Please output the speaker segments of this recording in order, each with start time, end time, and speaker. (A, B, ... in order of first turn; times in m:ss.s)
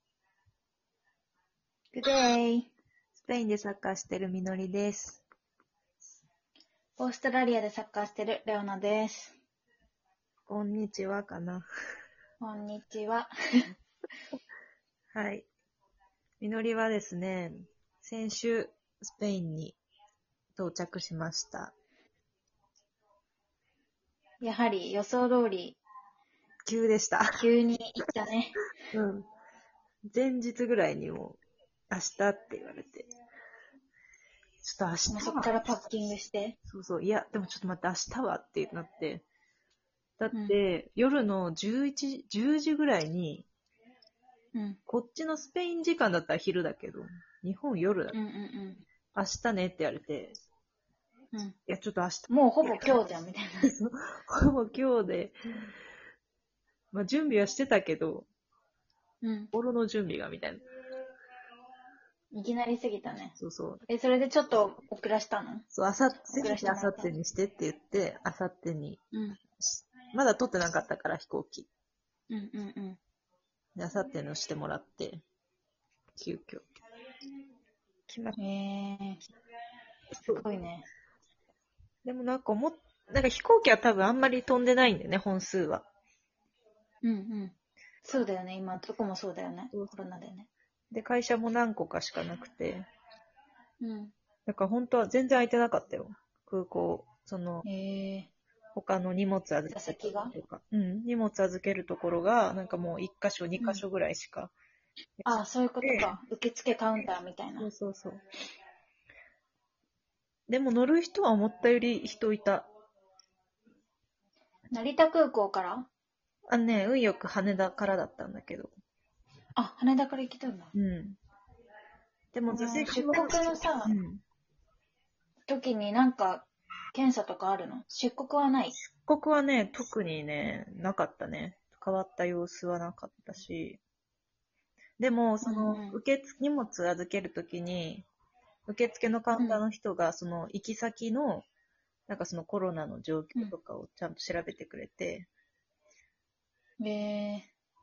0:01.9-0:02.7 A
0:03.1-0:05.2 B
0:07.0-0:09.4 A
0:10.5-0:11.6 B
0:12.4-0:13.3 A
0:15.1-0:15.5 B
0:16.4-0:19.8 B
0:20.6-0:21.7 B
0:24.4-0:25.8 A
0:26.6-0:27.4 B
0:27.3-0:28.6 A
0:28.9-0:29.2 B
0:30.1-0:31.4 B
0:31.9-0:33.1 B
0:34.6-0:35.7 B
0:35.1-0:36.6 A
0:36.7-0:39.2 B
0:40.2-0:43.5 B
0:40.3-0:40.6 A
0:44.5-0:44.8 A
0:44.9-0:48.2 B
0:48.1-0:48.8 A
0:49.1-0:50.3 B
0:51.7-0:53.1 B
0:52.3-0:53.7 A
0:53.6-0:55.3 B
0:56.9-0:58.3 B
0:59.2-0:59.5 A
0:59.5-1:00.6 B
1:02.3-1:03.4 A
1:03.4-1:03.8 B
1:03.9-1:05.6 A
1:05.7-1:09.0 B
1:06.3-1:07.1 A
1:09.1-1:09.4 A
1:09.6-1:11.7 B
1:12.3-1:13.0 A
1:13.7-1:15.2 B
1:16.1-1:16.6 B
1:18.1-1:18.4 B
1:18.4-1:19.2 A
1:20.2-1:20.4 B
1:20.2-1:20.8 A
1:22.0-1:25.9 B
1:27.0-1:30.5 A
1:30.9-1:32.9 B
1:33.8-1:34.1 A
1:34.5-1:37.6 B
1:37.6-1:38.3 A
1:38.7-1:44.5 B
1:39.7-1:40.3 A
1:45.2-1:46.1 B
1:45.2-1:47.7 A
1:47.6-1:48.2 B
1:50.5-1:52.7 B
1:54.7-1:55.9 A
1:56.5-1:58.7 B
1:59.6-2:00.7 A
2:00.7-2:01.2 B
2:02.3-2:04.2 B
2:02.5-2:04.0 A
2:05.5-2:08.8 A
2:09.0-2:13.8 B
2:15.0-2:18.0 B
2:15.4-2:16.0 A
2:18.7-2:21.4 B
2:19.4-2:19.6 A
2:22.1-2:25.3 B
2:26.8-2:27.5 A